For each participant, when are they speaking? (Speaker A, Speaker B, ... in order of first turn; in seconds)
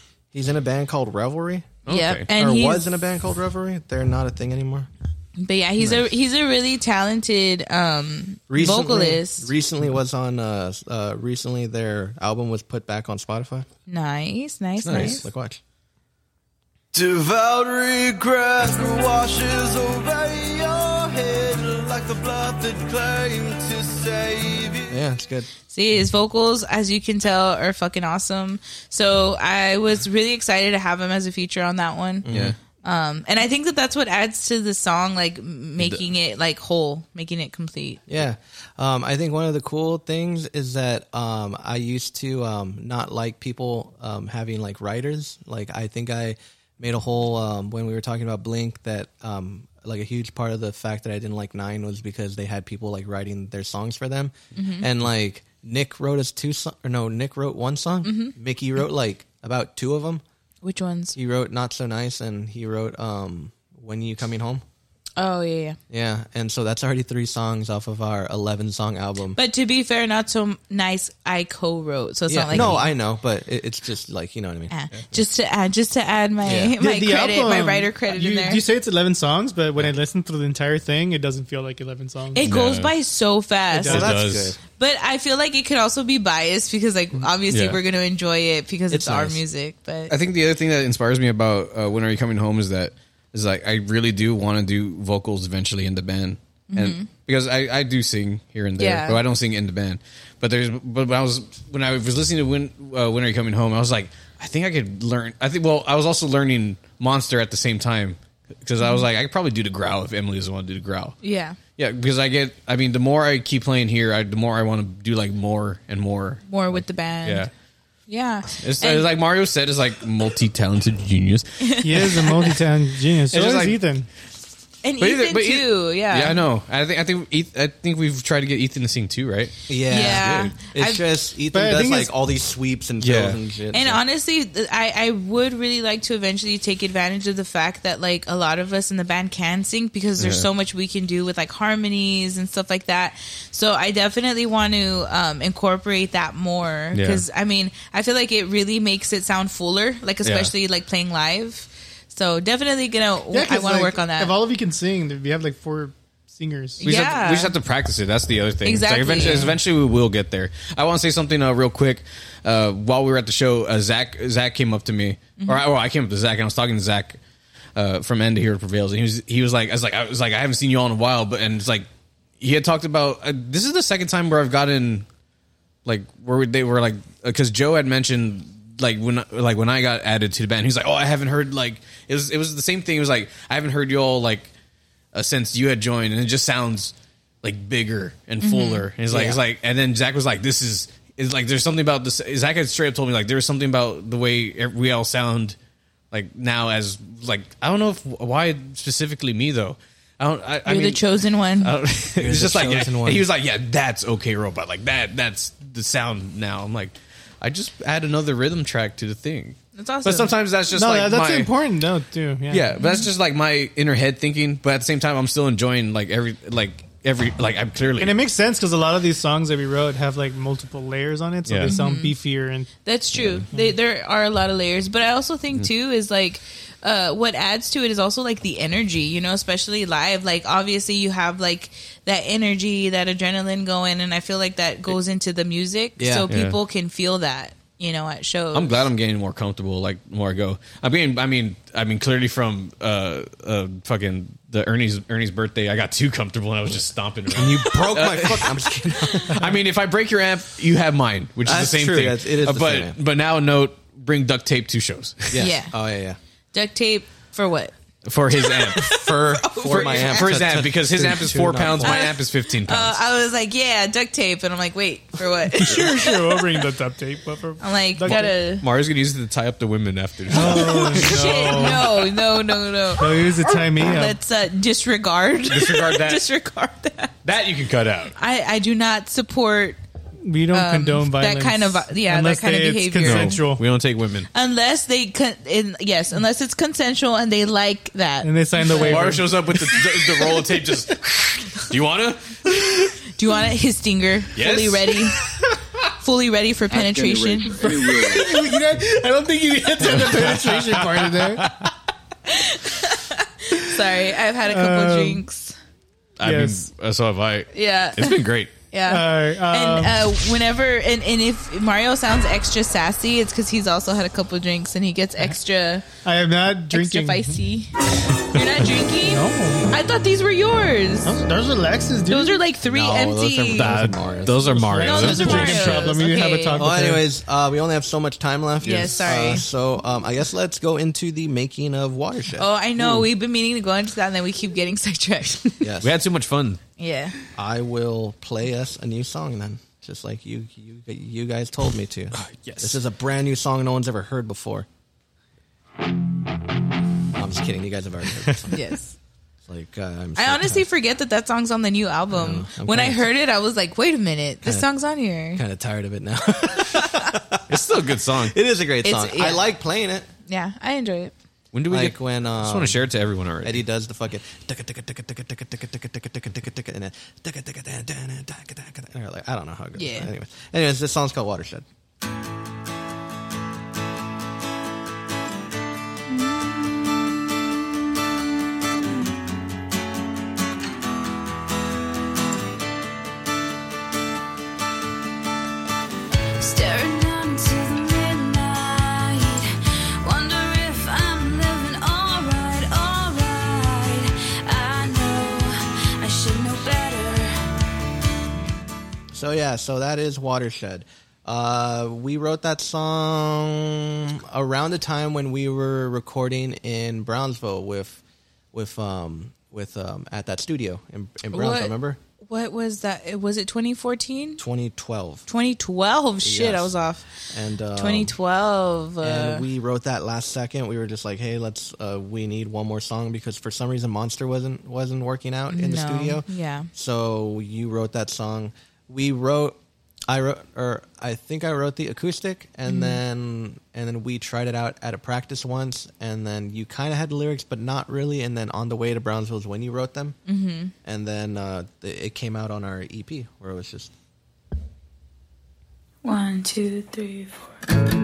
Speaker A: 0.3-4.9, 8.5-13.7, 14.8-15.6, 24.9-25.5, 32.2-32.5, 38.1-60.2, 61.1-64.6, 65.9-69.4, 72.3-74.7, 76.4-76.7, 83.9-84.6, 88.9-89.4, 129.7-134.0, 189.1-189.4, 202.2-203.3, 236.0-236.3, 247.3-249.5, 251.4-253.0, 255.3-256.2, 258.8-262.0, 322.6-325.0, 326.6-332.5, 335.6-335.9, 337.3-344.7, 347.1-348.6, 349.4-350.6, 352.1-353.1, 355.3-357.5, 358.2-360.1, 361.7-362.8, 363.4-371.6, 399.1-408.0, 408.5-412.0, 414.4-415.2, 416.2-418.1, 419.0-429.6, 430.1-440.2, 440.8-443.9
Speaker B: 1.9-2.3, 14.8-15.2, 32.3-32.5, 35.8-36.0, 82.4-82.9, 83.9-84.5, 87.5-87.8, 90.1-111.2, 111.8-117.5, 118.5-122.3, 123.3-123.8, 125.0-129.5, 130.2-130.5, 133.0-133.4, 140.2-140.5, 146.9-147.2, 150.2-150.5, 156.8-167.2, 167.8-171.9, 172.4-175.1, 175.8-184.5, 185.1-195.6, 196.1-211.5, 212.5-218.2, 221.5-221.7, 236.3-236.6, 238.5-248.7, 249.3-255.4, 258.0-258.9, 259.6-263.0, 268.1-271.8, 275.5-276.2, 277.2-278.1, 283.0-284.3, 288.7-293.0, 294.3-295.6, 296.8-297.5, 299.8-301.7, 306.2-308.5, 323.5-326.0, 328.6-329.0, 335.8-336.6, 342.1-342.8, 357.5-358.3, 361.5-363.6
Speaker C: 1.9-2.9, 5.4-9.5, 13.9-15.2, 25.7-32.3, 32.8-38.0, 54.5-54.9, 58.0-58.3, 60.6-61.1, 65.2-65.8, 69.3-72.9, 74.7-78.6, 82.3-84.1, 84.8-90.1, 96.7-97.1, 98.8-99.2, 108.8-109.1, 111.2-111.6, 116.5-117.5, 118.1-119.1, 121.6-122.5, 124.8-126.4, 129.9-131.0, 133.7-154.3, 156.8-157.5, 158.6-159.6, 188.4-188.8, 200.7-201.7, 209.8-210.3, 212.8-213.1, 221.7-222.2, 222.8-238.9, 255.4-255.7, 256.5-257.7, 258.3-260.4, 261.8-266.6, 267.6-268.6, 270.3-277.1, 278.2-279.8, 280.5-283.4, 284.3-289.2, 293.1-295.2, 296.0-297.7, 302.2-305.6, 307.5-315.9, 316.7-321.2, 322.1-323.7, 324.8-326.7, 328.6-329.4, 332.4-335.6, 336.8-337.1, 348.5-348.9, 350.2-355.4, 356.7-357.1, 358.8-359.4, 360.3-361.1, 369.8-370.1, 411.3-414.4, 415.3-417.2, 417.7-419.5, 425.5-426.7, 432.7-433.0, 440.3-440.7
Speaker D: 16.9-25.0
Speaker E: 76.8-82.5, 83.7-84.1, 121.8-124.1, 131.5-132.1, 153.3-156.8, 210.7-212.7, 218.0-222.7, 265.5-268.3, 270.3-271.9, 273.0-274.2, 280.2-283.6, 288.2-289.4, 297.5-301.6, 304.5-305.2, 306.2-306.6, 308.9-310.1, 316.0-317.4, 319.0-319.7, 321.0-322.4, 324.5-327.0
Speaker F: 386.4-397.4, 446.0-447.4